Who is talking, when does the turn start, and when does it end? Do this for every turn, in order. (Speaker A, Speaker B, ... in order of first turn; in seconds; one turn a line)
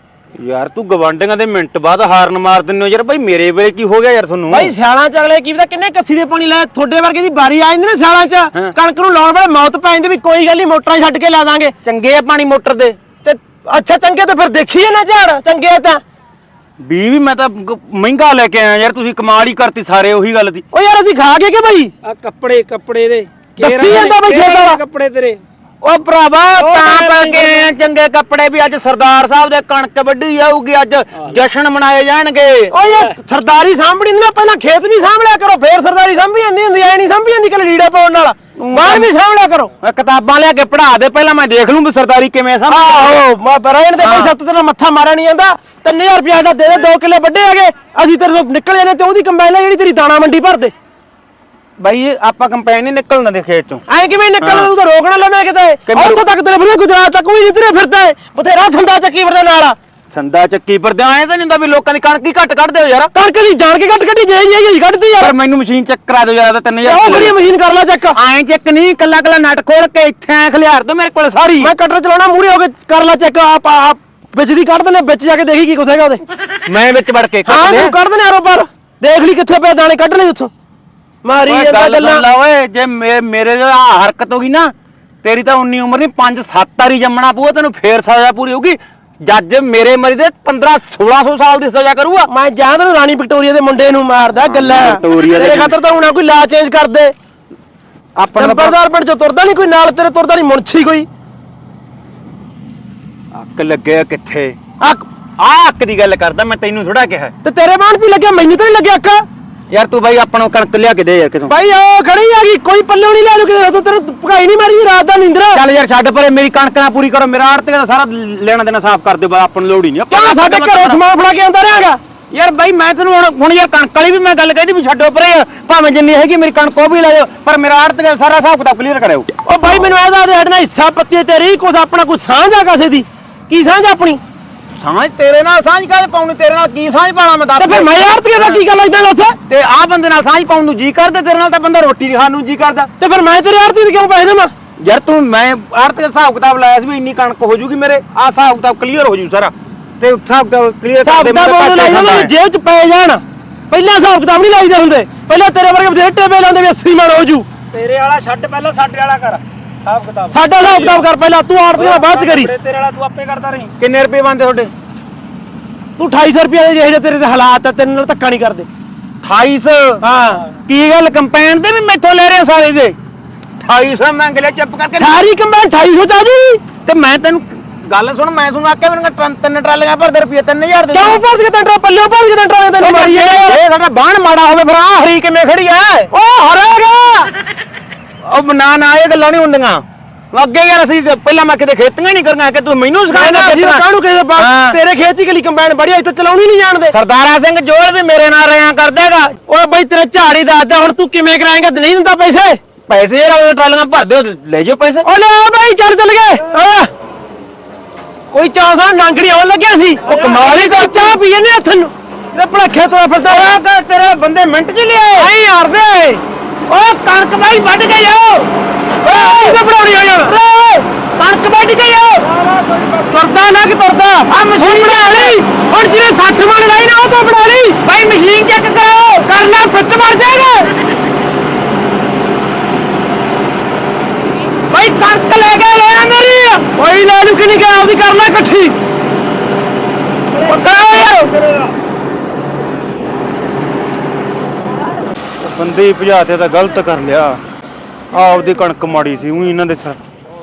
Speaker A: 0.4-4.7
Speaker B: 4.5-11.7
Speaker A: 11.8-13.0
Speaker B: 13.2-16.0
Speaker A: 16.8-20.6
Speaker B: 20.7-21.9
Speaker C: 22.0-25.4
Speaker B: 23.6-24.8
Speaker A: 25.8-32.7
Speaker B: 26.6-27.7
Speaker B: 32.7-39.7
Speaker A: 38.6-39.1
Speaker A: 39.8-43.1
Speaker B: 42.7-50.7
Speaker A: 44.0-44.3
Speaker A: 51.8-53.8
Speaker B: 53.9-59.8
Speaker A: 54.4-54.7
Speaker A: 55.9-56.2
Speaker A: 60.1-63.1
Speaker B: 63.1-65.3
Speaker A: 65.2-67.3
Speaker B: 66.8-68.2
Speaker A: 68.1-71.7
Speaker B: 71.6-76.2
Speaker A: 76.7-77.9
Speaker B: 77.5-80.5
Speaker B: 81.2-82.2
Speaker A: 81.5-92.3
Speaker B: 92.3-97.1
Speaker A: 94.4-95.8
Speaker A: 98.2-98.8
Speaker B: 98.4-101.1
Speaker A: 103.3-104.6
Speaker B: 104.8-105.0
Speaker A: 105.4-107.3
Speaker B: 107.4-109.2
Speaker A: 109.7-111.5
Speaker B: 111.5-115.6
Speaker A: 115.5-121.0
Speaker B: 120.1-122.0
Speaker A: 122.3-129.3
Speaker B: 129.4-134.2
Speaker A: 134.8-138.6
Speaker B: 137.6-139.4
Speaker A: 139.5-142.9
Speaker B: 143.0-144.5
Speaker A: 144.8-152.3
Speaker B: 151.0-157.5
Speaker C: 157.7-161.0
Speaker B: 160.3-162.5
Speaker C: 161.8-163.7
Speaker A: 163.8-164.7
Speaker B: 166.0-168.7
Speaker A: 169.2-170.0
Speaker B: 170.0-170.4
Speaker A: 170.7-172.9
Speaker A: 173.6-175.2
Speaker B: 175.0-176.6
Speaker A: 176.8-181.2
Speaker B: 180.9-183.6
Speaker A: 182.8-186.1
Speaker B: 186.1-187.3
Speaker A: 188.2-193.8
Speaker B: 193.1-196.9
Speaker A: 194.4-194.8
Speaker A: 196.9-199.3
Speaker B: 199.5-202.6
Speaker A: 202.9-205.1
Speaker B: 205.0-206.9
Speaker B: 208.3-213.6
Speaker A: 210.1-211.2
Speaker A: 213.2-215.3
Speaker B: 215.2-218.4
Speaker B: 219.0-222.2
Speaker C: 222.4-223.1
Speaker B: 223.1-227.8
Speaker A: 224.3-225.4
Speaker A: 227.8-229.3
Speaker B: 229.2-230.7
Speaker B: 234.8-238.8
Speaker A: 234.8-236.6
Speaker A: 240.4-241.7
Speaker A: 245.4-247.4
Speaker A: 248.1-250.0